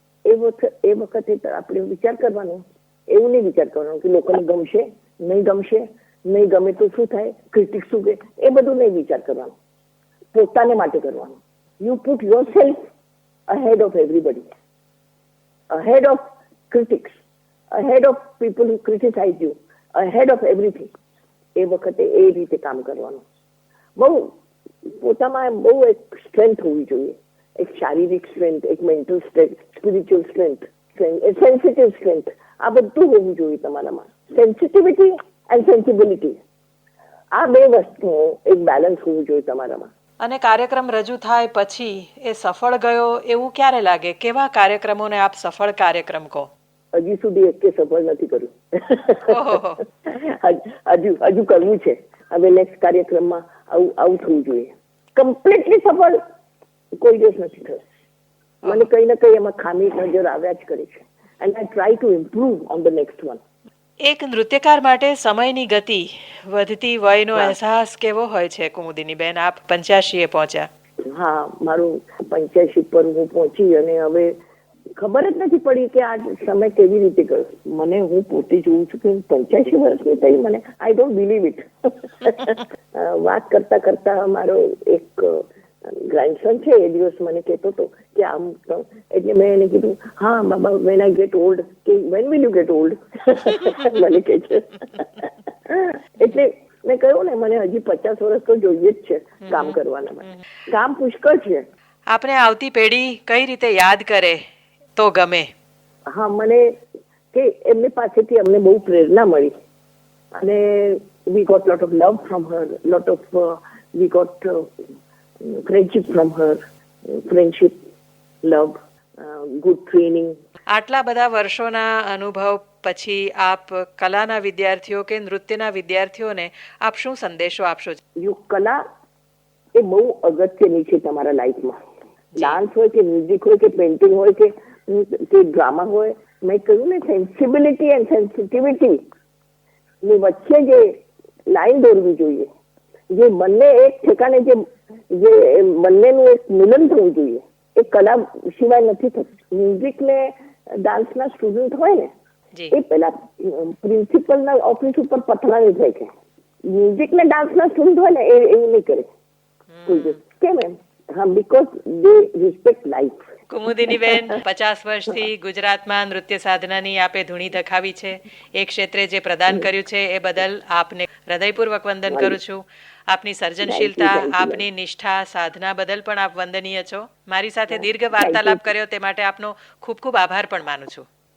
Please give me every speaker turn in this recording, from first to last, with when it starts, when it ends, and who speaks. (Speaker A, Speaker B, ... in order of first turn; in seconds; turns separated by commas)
Speaker A: 0.2-9.5, Speaker A: 10.3-12.8, Speaker A: 13.5-14.4, Speaker A: 15.7-17.2, Speaker A: 17.7-20.9, Speaker A: 21.6-23.2, Speaker A: 23.9-36.4, Speaker A: 37.3-39.9, Speaker B: 40.2-46.5, Speaker A: 46.9-56.2, Speaker B: 49.2-49.8, Speaker A: 57.0-57.8, Speaker A: 58.6-63.4, Speaker B: 64.0-70.7, Speaker A: 71.1-74.4, Speaker A: 75.0-101.7, Speaker B: 93.5-94.0, Speaker B: 99.4-99.8, Speaker B: 102.1-104.4, Speaker B: 105.0-105.5, Speaker A: 106.1-106.8, Speaker A: 107.3-109.5, Speaker A: 110.3-114.7, Speaker A: 115.4-117.8, Speaker A: 118.4-120.4, Speaker B: 120.7-128.0, Speaker A: 128.2-128.8, Speaker A: 129.7-131.8, Speaker B: 132.3-132.6, Speaker A: 132.4-139.1, Speaker A: 140.0-142.5, Speaker A: 143.1-152.1, Speaker A: 152.7-156.1, Speaker A: 156.6-159.1, Speaker B: 159.8-160.2, Speaker A: 159.8-163.2, Speaker B: 163.5-181.1, Speaker A: 163.8-164.3, Speaker A: 172.1-172.4, Speaker A: 173.6-174.6, Speaker A: 177.7-178.6